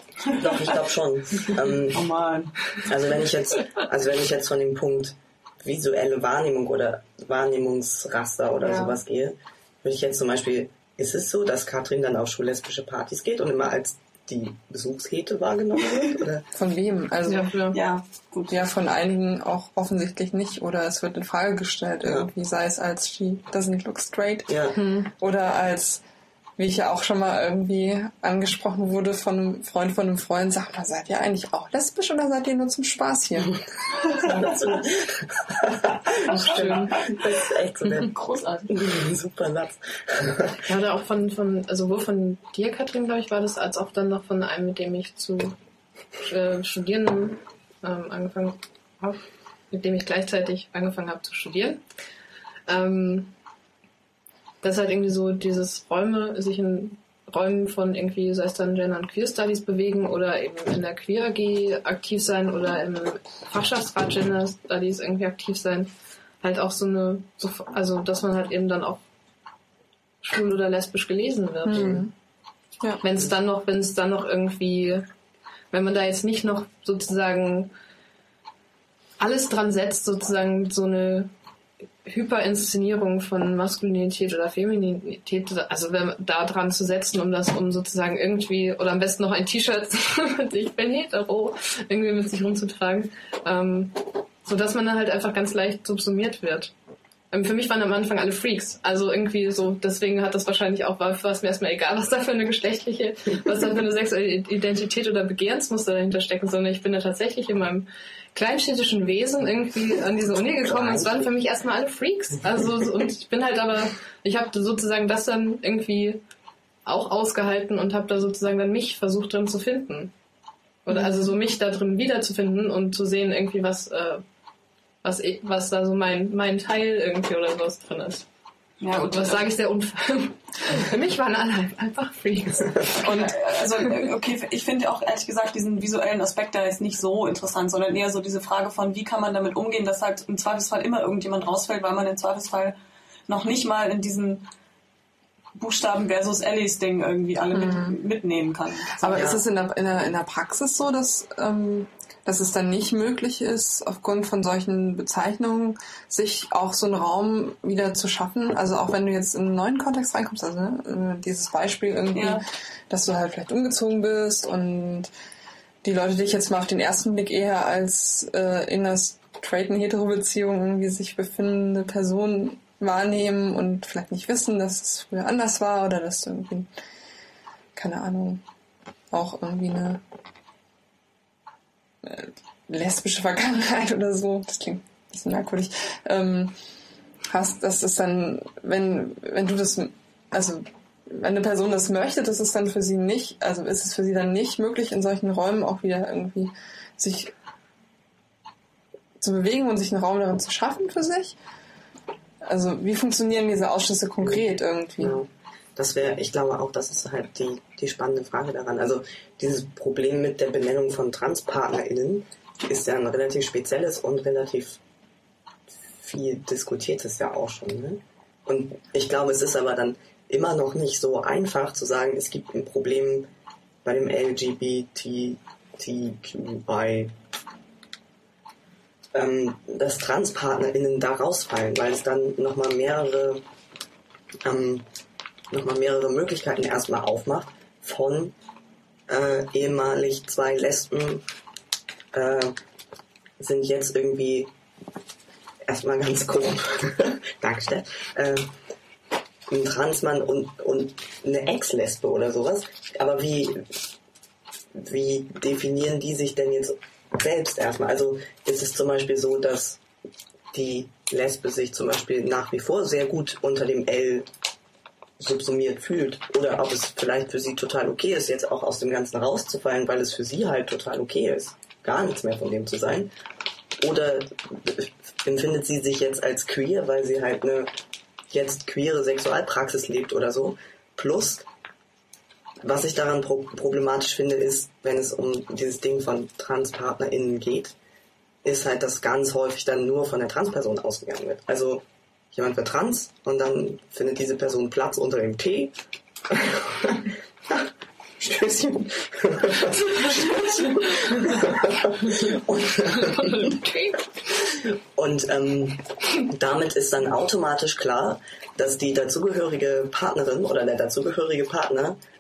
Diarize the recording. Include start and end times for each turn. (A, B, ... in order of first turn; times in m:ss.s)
0:00.3-0:02.0 A
0:01.4-0:02.8 B
0:02.8-0:16.4 A
0:08.6-0:09.0 C
0:16.5-0:17.5 D
0:17.3-0:17.8 C
0:17.7-0:18.6 B
0:18.5-0:26.0 D
0:24.5-0:24.8 A
0:24.8-0:25.1 C
0:26.6-0:33.6 D
0:34.0-0:38.2 A
0:36.3-0:37.0 C
0:36.4-0:37.1 B
0:38.0-0:38.7 B
0:38.7-0:40.6 A
0:40.6-0:45.6 C
0:46.3-0:51.8 C
0:52.7-0:53.3 C
0:54.6-1:09.0 C
1:10.2-1:12.1 C
1:11.6-1:12.1 D
1:13.0-1:15.1 C
1:15.7-1:17.7 C
1:19.2-1:21.3 C
1:22.0-1:36.7 C
1:37.3-1:56.2 C
1:50.6-1:51.3 A
1:56.8-2:00.1 C
2:00.9-2:04.2 C
2:05.0-2:08.2 C
2:08.8-2:09.5 B
2:09.1-2:13.3 C
2:13.0-2:22.8 B
2:23.3-2:24.5 B
2:25.6-2:29.2 B
2:27.6-2:28.0 D
2:29.0-2:45.1 D
2:29.1-2:29.4 A
2:42.1-2:42.4 B
2:45.8-2:56.7 D
2:57.8-2:58.4 D
2:59.1-3:00.0 D
3:02.0-3:06.6 D
3:07.3-3:17.3 D
3:19.2-3:21.4 D
3:22.4-3:25.2 D
3:25.0-3:34.8 A
3:36.0-3:43.3 A
3:43.8-3:47.1 A
3:49.1-3:53.4 A
3:54.4-3:54.9 A
3:55.5-3:58.3 A
3:59.1-4:01.2 A
4:02.1-4:02.6 A
4:03.4-4:04.5 A
4:05.7-4:08.5 A
4:09.5-4:13.8 A
4:14.7-4:19.8 A
4:20.5-4:24.3 A
4:25.2-4:33.1 A
4:33.8-4:37.7 A
4:38.3-4:41.5 A
4:42.6-4:47.8 A
4:48.4-4:55.8 A
4:56.3-4:57.7 A
4:58.2-5:03.6 A
5:03.3-5:04.0 C
5:04.6-5:12.0 A